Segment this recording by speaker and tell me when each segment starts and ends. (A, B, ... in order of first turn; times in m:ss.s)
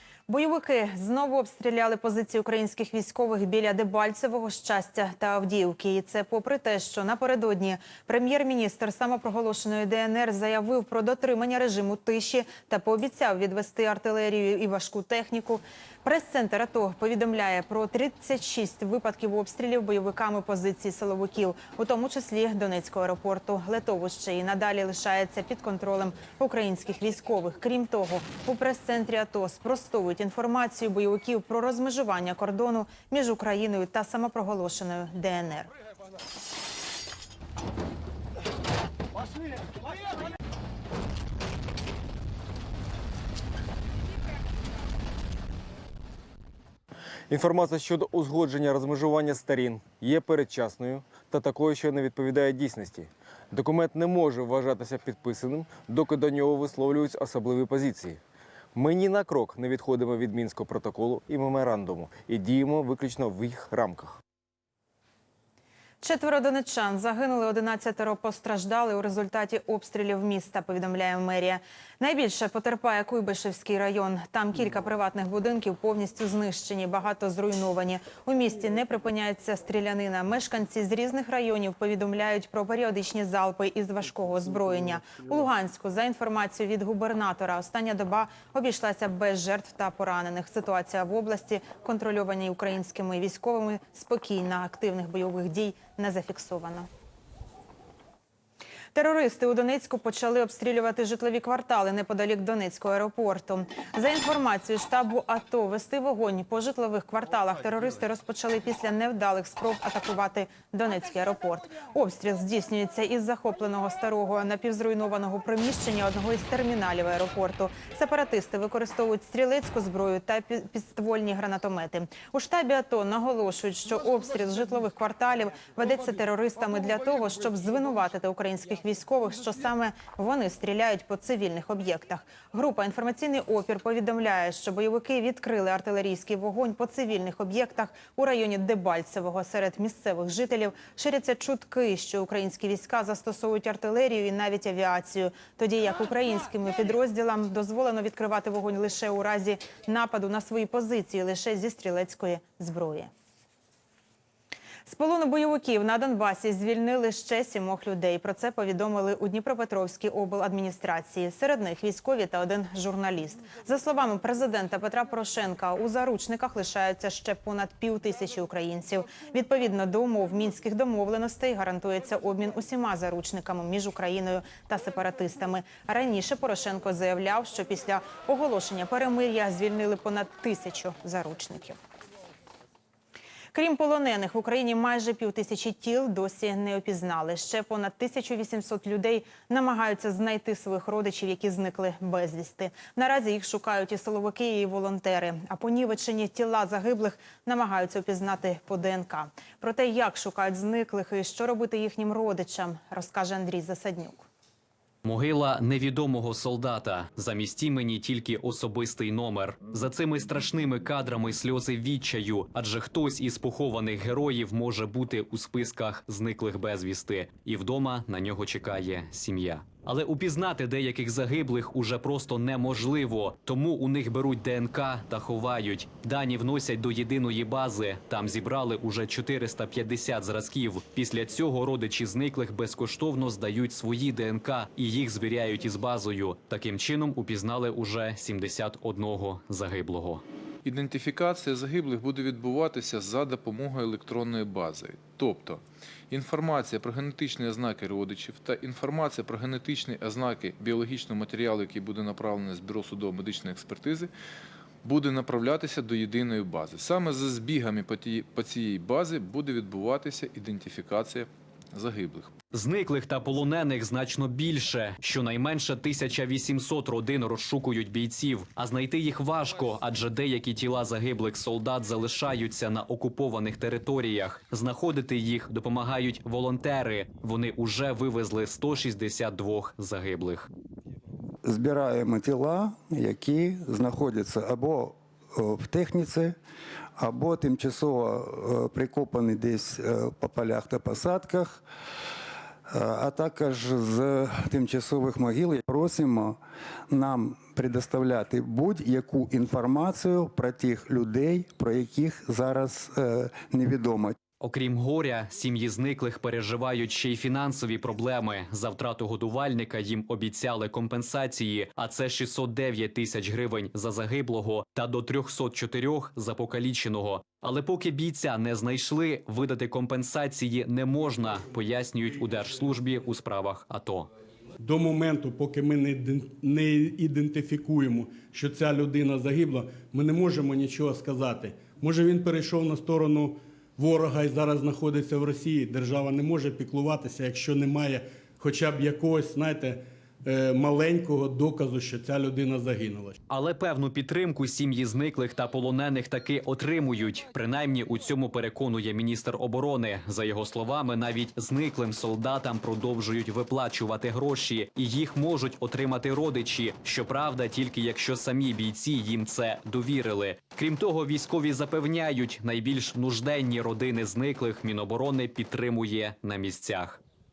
0:00.3-0:35.7 A
0:47.3-0:58.2 B
0:58.7-1:04.2 B
1:06.0-1:36.9 A
1:38.9-2:33.1 A
2:34.8-3:01.8 A
3:03.5-3:24.2 A
3:25.0-4:00.2 C
4:00.6-4:05.6 D
4:04.5-4:05.6 E
4:06.1-4:06.7 E
4:06.1-4:14.1 D
4:07.4-4:07.8 E
4:08.7-4:09.4 E
4:10.1-4:10.7 E
4:11.3-4:11.6 E
4:12.1-4:14.1 E
4:14.8-4:22.3 D
4:14.9-4:15.4 E
4:17.6-4:18.7 E
4:19.3-4:20.6 E
4:22.5-4:40.5 C
4:41.4-4:46.4 F
4:47.0-4:51.6 F
4:52.7-4:56.4 F
4:56.9-5:04.2 F
5:04.4-5:24.1 C
5:24.6-5:43.2 E
5:43.3-6:07.0 C